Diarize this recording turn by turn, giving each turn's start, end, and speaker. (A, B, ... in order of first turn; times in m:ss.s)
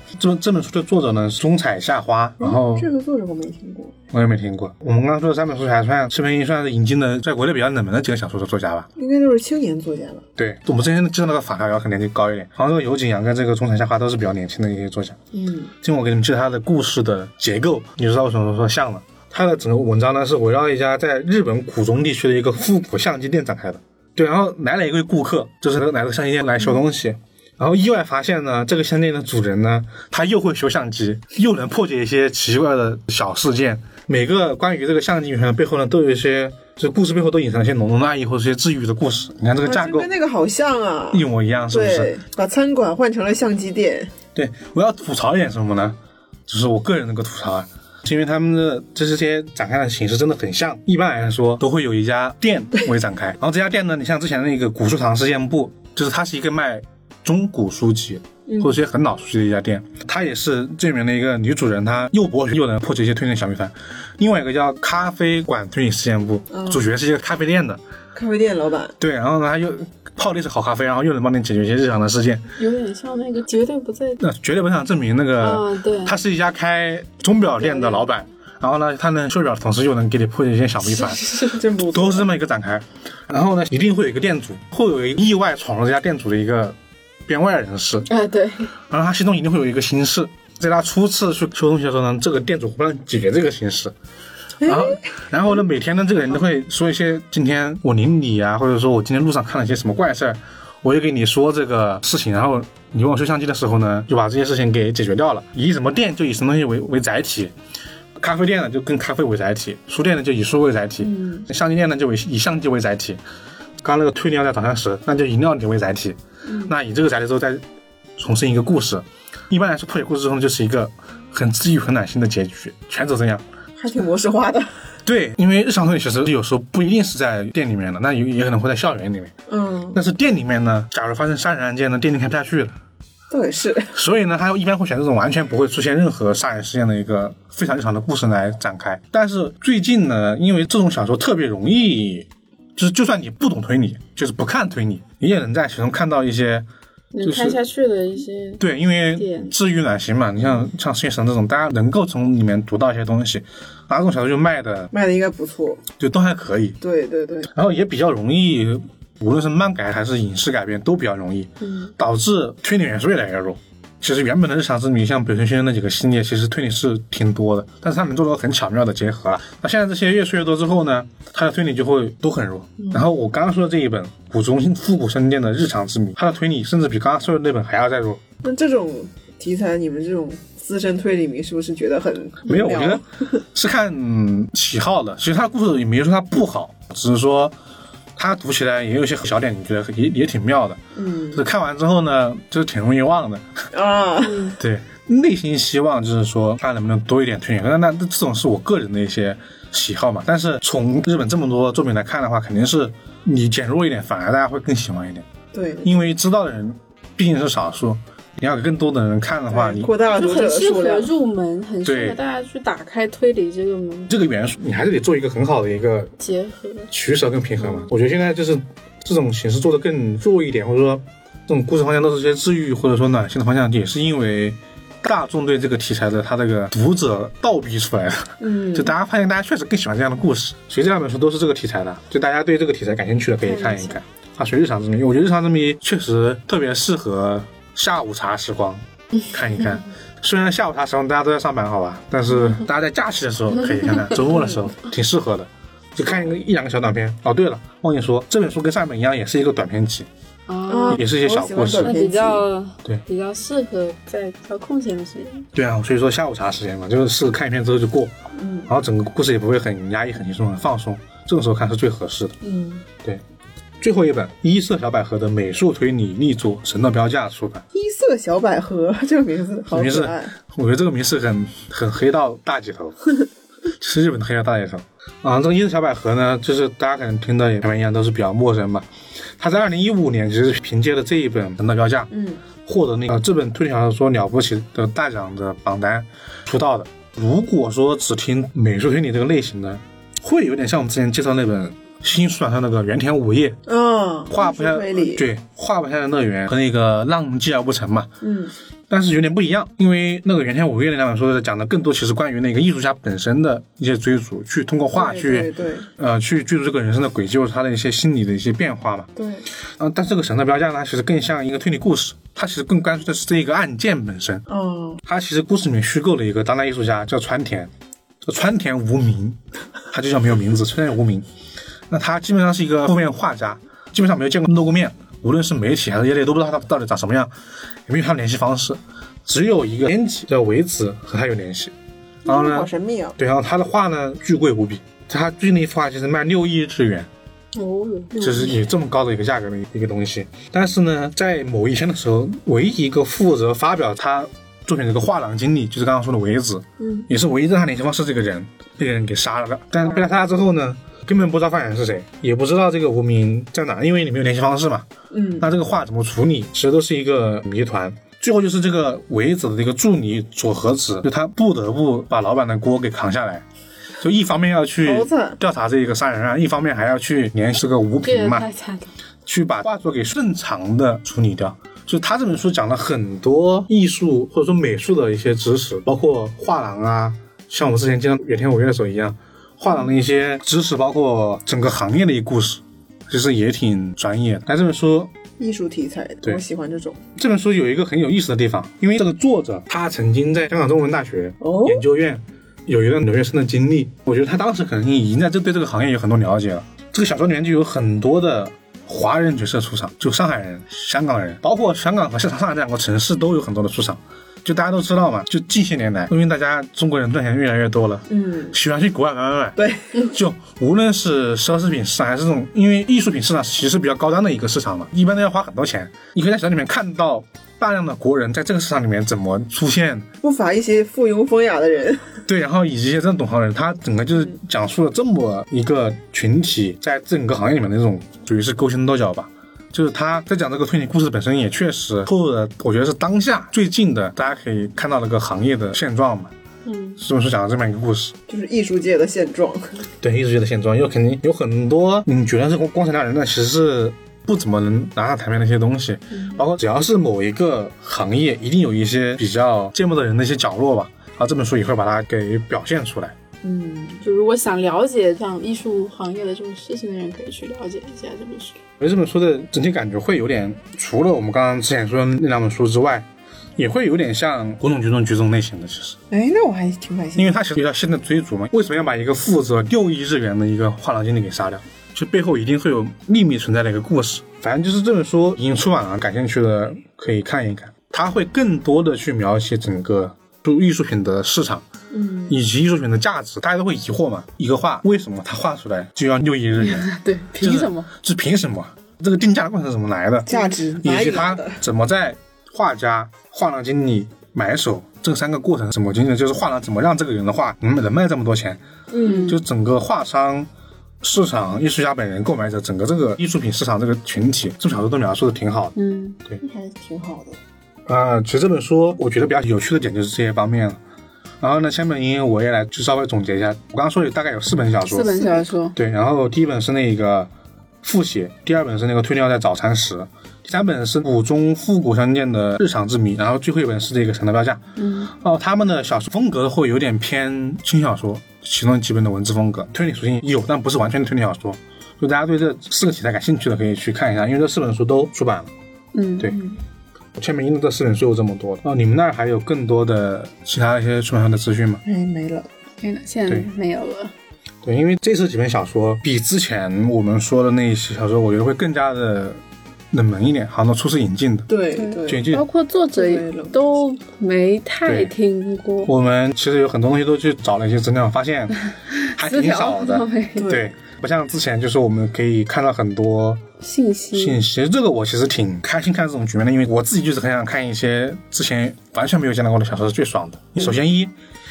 0:00.2-0:02.9 A
0:02.4-0:04.0 B
0:04.1-0:08.9 A
0:09.0-0:10.2 B
0:10.4-0:15.2 A
0:15.3-0:15.7 B
0:15.8-0:40.1 A
0:39.6-0:44.1 B
0:41.1-0:42.1 A
0:44.4-1:07.8 A
0:58.5-0:58.8 B
1:06.5-1:06.8 B
1:08.2-1:09.0 B
1:09.0-1:12.5 A
1:12.6-1:14.2 C
1:14.2-1:28.1 A
1:15.4-1:16.2 C
1:20.8-1:21.6 C
1:21.5-1:22.3 B
1:28.1-1:28.7 C
1:28.9-1:33.9 A
1:34.6-1:35.0 B
1:34.6-1:47.5 A
1:48.2-1:53.2 A
1:51.0-1:51.4 B
1:53.8-1:57.6 A
1:58.2-2:03.4 A
2:03.8-2:04.7 B
2:05.0-2:09.3 A
2:09.5-2:10.0 B
2:09.9-2:12.8 A
2:13.3-2:14.0 B
2:13.9-2:26.7 A
2:27.1-2:28.6 C
2:27.2-2:27.6 A
2:28.6-2:34.9 A
2:29.2-2:29.5 C
2:34.9-2:35.9 B
2:35.9-2:36.8 A
2:36.8-2:37.5 B
2:37.5-2:58.2 A
2:41.6-2:41.9 B
2:58.4-3:03.3 B
3:02.4-3:07.6 A
3:08.2-3:10.8 A
3:11.0-3:11.4 B
3:11.3-3:13.6 A
3:13.7-3:14.5 B
3:14.2-3:14.6 C
3:14.6-3:25.3 A
3:25.5-3:26.0 B
3:25.8-3:29.9 A
3:29.5-3:31.1 B
3:30.1-3:34.1 C
3:31.8-3:32.2 A
3:34.1-3:36.1 A
3:36.2-3:36.9 C
3:36.9-4:10.1 A
3:37.6-3:37.9 C
3:48.4-3:48.9 B
3:53.4-3:54.0 C
4:04.2-4:04.6 B
4:10.5-4:11.0 C
4:10.7-4:12.5 B
4:10.9-4:12.0 A
4:11.8-4:15.5 C
4:15.5-4:18.2 A
4:18.4-4:18.7 B
4:18.7-4:22.4 A
4:22.4-4:22.8 C
4:23.8-4:27.6 A
4:27.7-4:30.3 B
4:29.7-4:33.1 A
4:33.7-4:38.9 A
4:39.4-4:53.6 A
4:42.1-4:42.4 B
4:53.7-4:55.2 B
4:54.3-4:58.1 A
4:58.2-4:58.5 B
4:58.9-5:09.1 A
5:04.9-5:05.9 B
5:09.2-5:09.5 B
5:09.8-5:14.4 A
5:14.5-5:15.0 B
5:15.0-5:17.7 A
5:18.2-5:19.4 A
5:19.9-5:21.2 A
5:21.9-5:27.3 A
5:27.9-5:31.7 A
5:32.2-5:33.2 B
5:32.2-5:37.1 A
5:37.5-5:38.2 C
5:38.1-5:38.6 B
5:38.2-6:03.4 A
5:46.8-5:47.1 B
5:55.1-5:55.5 B
6:04.0-6:08.5 A
6:04.8-6:05.4 B
6:08.0-6:08.9 C
6:09.3-6:25.1 A
6:25.4-6:27.0 B
6:27.2-7:00.1 A
6:31.4-6:31.9 B
6:48.1-6:48.6 B
6:49.6-6:50.1 B
7:00.2-7:02.2 B
7:02.3-7:16.3 A
7:16.7-7:17.0 C
7:17.0-7:18.2 A
7:18.3-7:19.8 B
7:20.0-7:33.2 A
7:33.4-7:34.0 B
7:34.0-7:38.6 C
7:38.8-7:46.0 A
7:46.1-7:47.4 B
7:47.2-8:01.7 A
8:01.9-8:02.4 B
8:02.3-8:18.6 A
8:06.6-8:07.9 C
8:10.3-8:11.6 B
8:18.9-8:19.4 B
8:19.0-8:19.4 C
8:19.2-8:20.5 A
8:21.0-8:26.4 A
8:25.8-8:26.2 C
8:26.4-8:27.4 B
8:27.9-8:30.8 A
8:31.4-8:37.3 A
8:34.8-8:35.8 C
8:37.8-8:55.5 A
8:44.8-8:45.1 C
8:55.9-8:56.4 C
8:56.3-8:56.6 B
8:57.2-9:01.8 A
9:01.8-9:02.5 B
9:02.8-9:04.1 C
9:04.6-9:11.5 A
9:11.5-9:12.2 B
9:11.7-9:15.9 C
9:12.0-9:12.4 A
9:12.9-9:13.7 B
9:14.8-9:15.1 A
9:15.8-9:18.6 A
9:18.8-9:20.5 C
9:19.2-9:23.4 A
9:20.4-9:20.6 B
9:23.6-9:24.4 C
9:24.1-9:31.1 A